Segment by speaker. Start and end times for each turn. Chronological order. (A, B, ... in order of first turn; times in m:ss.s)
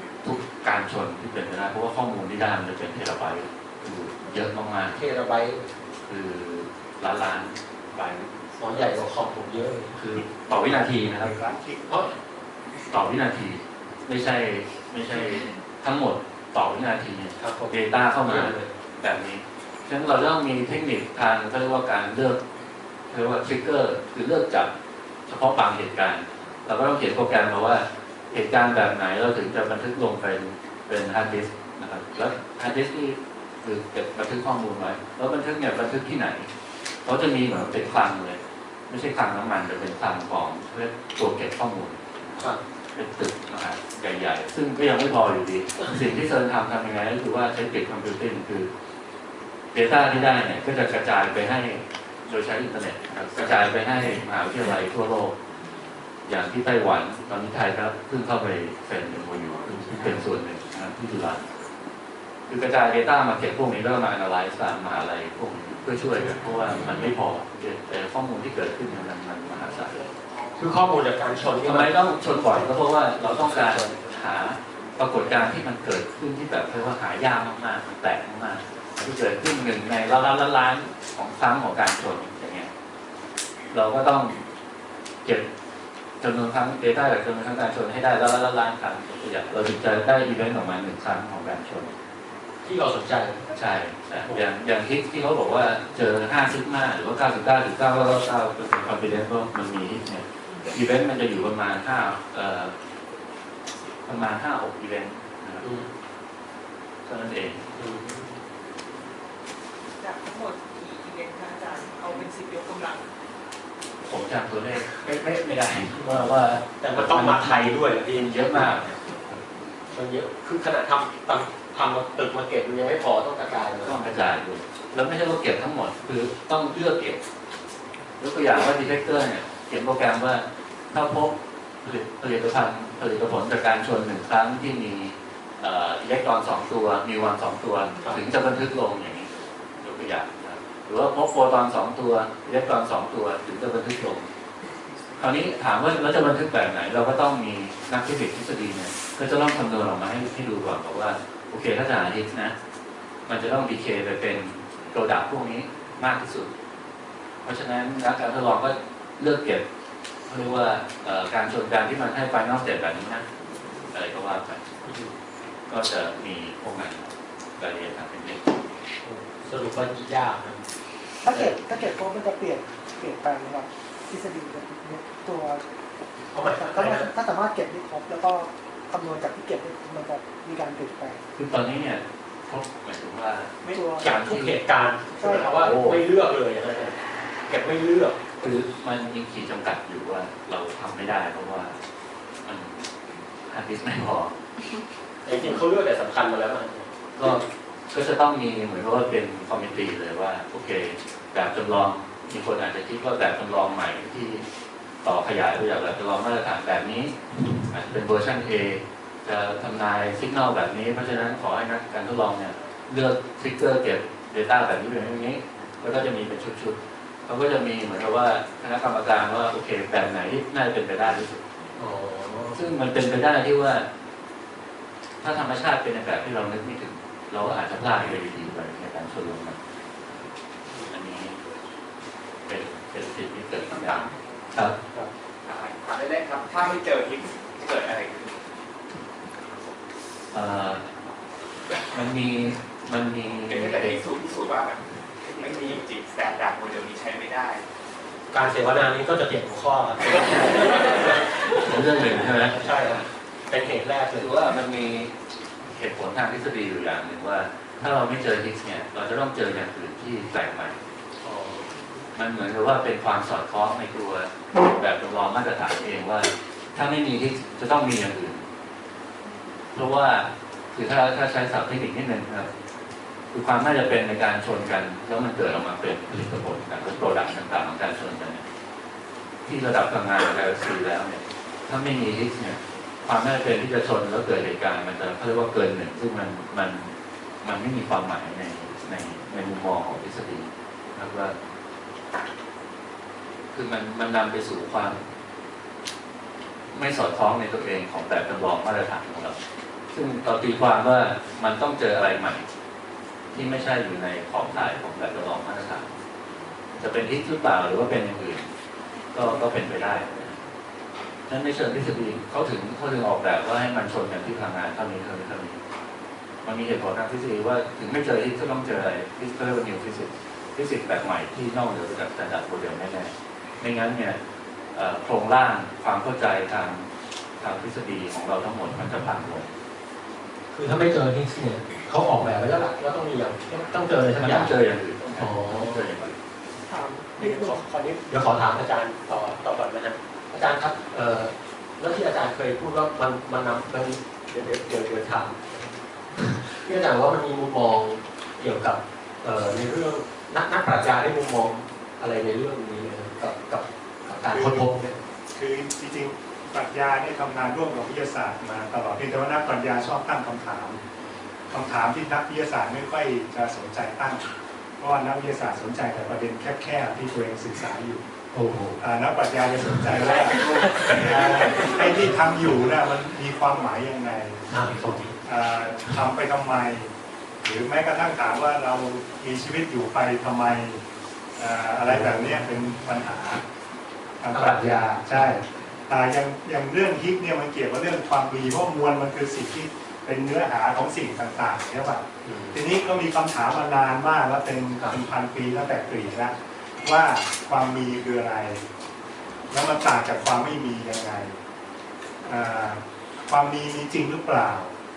0:00.2-0:05.0 A
0:04.9-0:05.7 B
0:06.1-0:08.3 A
0:08.6-0:10.0 B
0:10.0-0:11.3 A
0:11.2-0:11.9 C
0:12.9-0:22.4 A
0:17.4-0:18.7 B
0:23.1-0:24.7 A
0:25.3-0:36.5 A
0:37.0-0:48.7 A
0:49.7-0:55.4 A
0:56.3-1:01.5 A
0:59.9-1:00.2 B
1:02.5-1:10.0 A
1:06.2-1:07.2 B
1:10.6-1:11.9 B
1:11.6-1:22.7 A
1:12.5-1:14.1 B
1:23.7-1:24.4 A
1:26.2-1:31.9 A
1:32.6-1:33.4 B
1:33.6-1:42.7 A
1:44.1-1:45.7 A
1:45.6-1:45.9 B
1:47.0-1:47.6 A
1:47.8-1:48.4 B
1:50.0-1:53.1 D
1:54.0-1:59.4 A
1:56.8-1:58.7 B
1:59.9-2:04.0 B
2:03.8-2:07.2 A
2:08.2-2:19.3 A
2:19.8-2:24.3 A
2:25.2-2:32.6 A
2:33.3-2:36.5 A
2:37.4-2:39.6 A
2:40.3-2:43.3 A
2:43.9-2:44.6 A
2:44.8-2:45.2 B
2:45.7-2:48.4 A
2:49.0-2:50.6 B
2:51.2-2:55.6 E
2:56.3-2:57.1 B
2:56.4-3:01.2 E
3:01.4-3:06.0 A
3:03.6-3:04.1 E
3:04.0-3:07.0 B
3:05.2-3:05.6 E
3:07.5-3:08.2 B
3:08.4-3:11.8 A
3:12.4-3:12.8 A
3:13.5-3:14.3 A
3:15.2-3:17.4 B
3:15.3-3:15.6 A
3:17.2-3:24.4 A
3:25.0-3:27.2 A
3:27.7-3:36.8 A
3:37.3-3:41.4 A
3:41.8-3:42.6 B
3:42.6-3:43.9 A
3:45.2-3:49.6 A
3:50.9-3:51.4 A
3:52.5-3:54.8 A
3:55.4-3:58.4 F
4:00.3-4:00.9 A
4:01.9-4:04.0 A
4:03.5-4:07.6 F
4:08.3-4:11.1 B
4:11.6-4:12.7 A
4:12.5-4:14.3 B
4:14.2-4:15.1 A
4:15.6-4:20.8 A
4:21.2-4:21.7 B
4:22.2-4:28.4 A
4:29.7-4:32.5 A
4:33.3-4:38.4 A
4:39.5-4:51.4 A
4:53.5-4:55.0 A
4:56.7-4:59.4 A
4:59.9-5:02.5 A
5:03.3-5:05.9 A
5:06.8-5:08.5 A
5:09.1-5:10.4 A
5:11.3-5:15.6 A
5:16.4-5:24.2 A
5:24.7-5:26.9 A
5:27.4-5:29.5 A
5:30.5-5:34.5 B
5:34.2-5:36.2 A
5:35.2-5:35.9 B
5:36.6-5:37.6 E
5:37.2-5:55.0 B
5:54.3-5:54.7 C
5:55.3-6:00.8 C
6:01.5-6:04.2 C
6:04.8-6:08.0 C
6:08.3-6:08.8 B
6:08.8-6:16.9 C
6:09.6-6:12.1 B
6:14.5-6:15.1 B
6:17.4-6:20.8 C
6:21.4-6:23.4 C
6:21.9-6:22.5 B
6:24.2-6:38.6 C
6:24.3-6:25.4 B
6:32.2-6:32.6 B
6:39.5-6:41.4 C
6:42.2-6:44.7 C